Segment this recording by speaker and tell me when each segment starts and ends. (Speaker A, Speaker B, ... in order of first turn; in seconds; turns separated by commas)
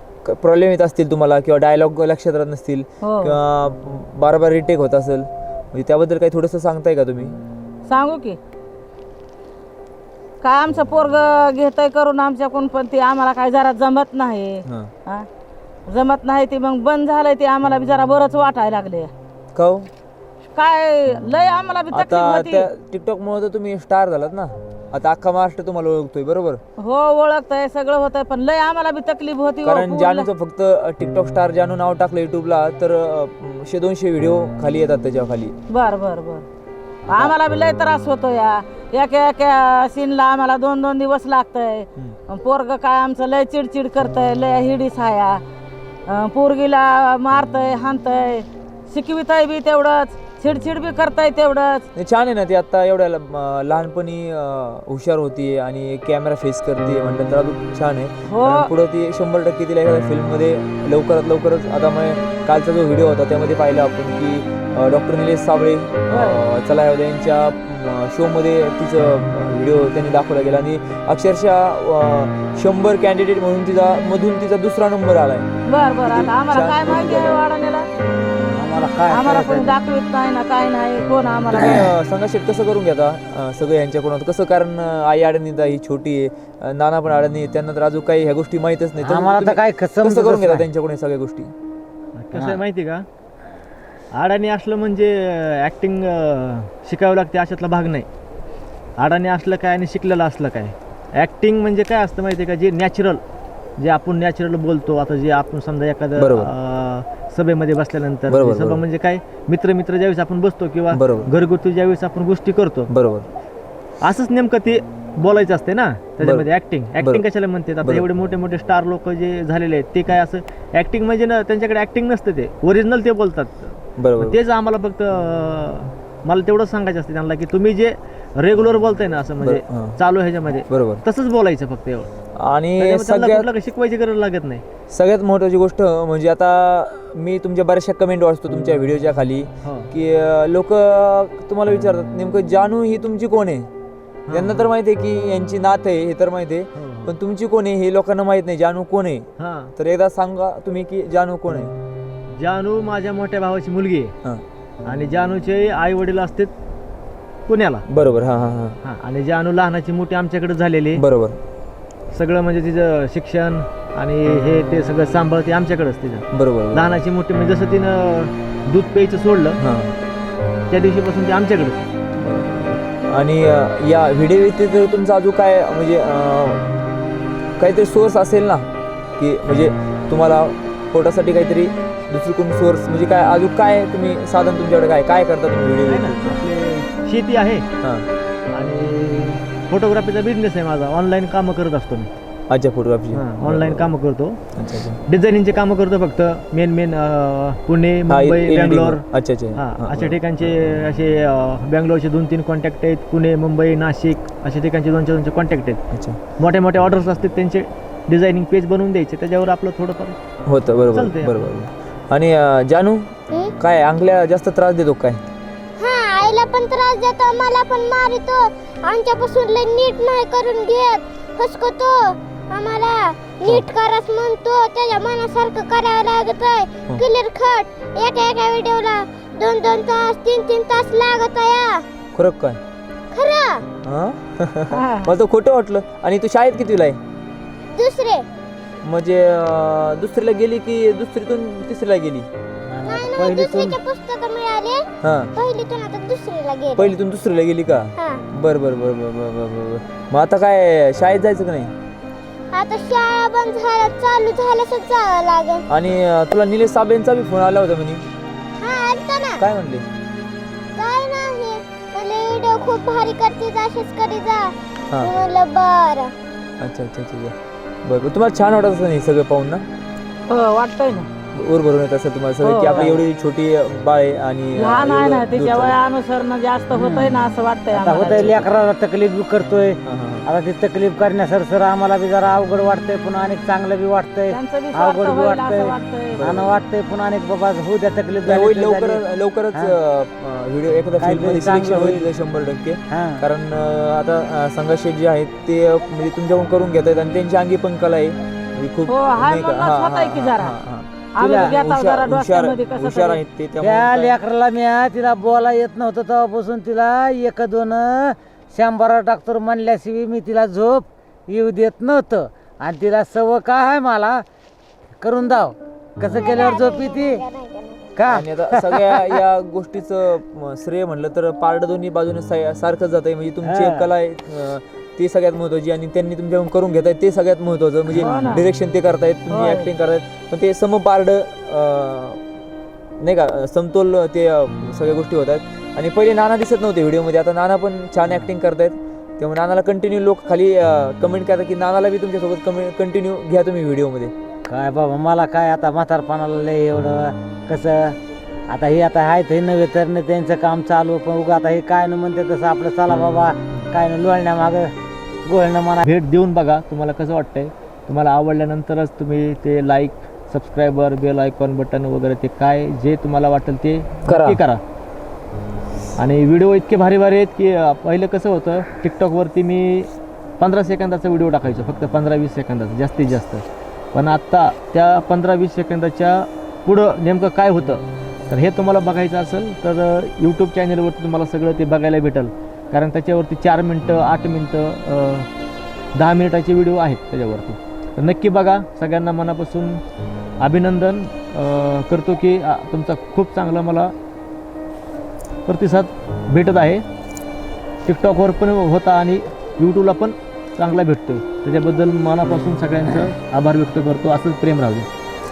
Speaker A: 0.2-7.4, Speaker B: 3.0-3.4, Speaker B: 7.9-8.4, Speaker B: 10.4-15.3, Speaker B: 15.9-19.1, Speaker A: 19.6-19.9, Speaker B: 20.5-22.7, Speaker A: 21.9-26.6, Speaker B: 26.8-30.3, Speaker A: 29.6-35.5, Speaker B: 35.7-36.5, Speaker A: 37.1-37.4, Speaker B: 37.1-45.4, Speaker B: 46.1-51.9, Speaker A: 52.0-75.5, Speaker B: 58.3-58.7, Speaker B: 66.1-66.4, Speaker B: 75.7-77.9, Speaker A: 76.0-77.4, Speaker C: 78.5-79.7, Speaker B: 79.1-81.9, Speaker A: 81.6-91.5, Speaker C: 89.0-90.7, Speaker D: 92.2-93.0, Speaker D: 94.1-98.1, Speaker D: 99.0-103.2, Speaker D: 103.8-112.9, Speaker A: 106.2-106.5, Speaker A: 108.3-108.8, Speaker A: 110.9-111.3, Speaker A: 112.9-113.3, Speaker D: 114.0-132.1, Speaker A: 116.2-117.2, Speaker A: 124.0-124.4, Speaker A: 129.4-130.0, Speaker A: 130.7-131.0, Speaker A: 132.4-133.5, Speaker D: 132.8-134.6, Speaker A: 134.9-143.7, Speaker D: 139.6-139.9, Speaker D: 144.3-144.7, Speaker A: 144.3-151.7, Speaker D: 146.8-147.2, Speaker D: 149.4-149.7, Speaker D: 152.4-154.2, Speaker D: 154.9-156.5, Speaker D: 157.5-157.8, Speaker A: 157.9-158.8, Speaker D: 158.8-161.1, Speaker A: 160.9-161.4, Speaker D: 162.1-169.6, Speaker A: 166.3-166.9, Speaker A: 169.6-169.9, Speaker D: 170.7-171.8, Speaker A: 172.2-176.7, Speaker A: 177.6-186.4, Speaker D: 185.8-187.7, Speaker A: 187.8-188.1, Speaker D: 188.5-192.1, Speaker A: 192.5-193.9, Speaker D: 193.1-194.4, Speaker A: 194.6-195.0, Speaker D: 195.1-199.1, Speaker A: 198.1-200.2, Speaker D: 199.6-205.8, Speaker A: 205.9-206.2, Speaker D: 206.4-210.2, Speaker A: 210.5-215.2, Speaker D: 210.9-211.4, Speaker E: 215.8-231.8, Speaker A: 223.4-223.7, Speaker A: 232.2-232.6, Speaker E: 233.1-233.6, Speaker A: 233.8-237.0, Speaker B: 234.7-235.2, Speaker E: 237.7-238.2, Speaker A: 238.8-242.3, Speaker C: 242.7-243.8, Speaker E: 242.9-244.8, Speaker A: 245.0-245.3, Speaker E: 245.4-246.8, Speaker A: 246.8-251.8, Speaker E: 252.5-255.6, Speaker A: 255.7-258.1, Speaker E: 258.6-259.4, Speaker A: 259.4-259.9, Speaker E: 260.8-264.5, Speaker E: 265.1-266.1, Speaker A: 266.6-269.7, Speaker B: 270.3-271.1, Speaker A: 271.3-275.8, Speaker B: 272.4-272.9, Speaker C: 272.7-273.0, Speaker B: 274.6-278.4, Speaker C: 277.7-289.7, Speaker A: 278.1-278.4, Speaker A: 279.9-280.3, Speaker B: 284.3-286.3, Speaker A: 286.1-286.5, Speaker A: 288.2-304.2, Speaker C: 291.0-292.1, Speaker C: 292.9-293.2, Speaker B: 298.9-300.5, Speaker B: 301.1-303.2, Speaker C: 301.2-301.6, Speaker C: 303.6-314.2, Speaker C: 315.0-317.2, Speaker E: 317.2-317.9, Speaker C: 318.0-319.2, Speaker A: 318.1-332.2, Speaker C: 323.4-323.9, Speaker B: 327.9-328.4, Speaker B: 329.3-329.7, Speaker A: 333.0-344.1, Speaker C: 344.5-348.0, Speaker C: 348.5-354.7, Speaker C: 355.3-355.9, Speaker D: 355.8-364.6, Speaker A: 364.1-364.4, Speaker D: 366.0-385.3, Speaker D: 385.9-389.8, Speaker D: 390.4-393.9, Speaker D: 395.5-396.9, Speaker D: 397.9-404.9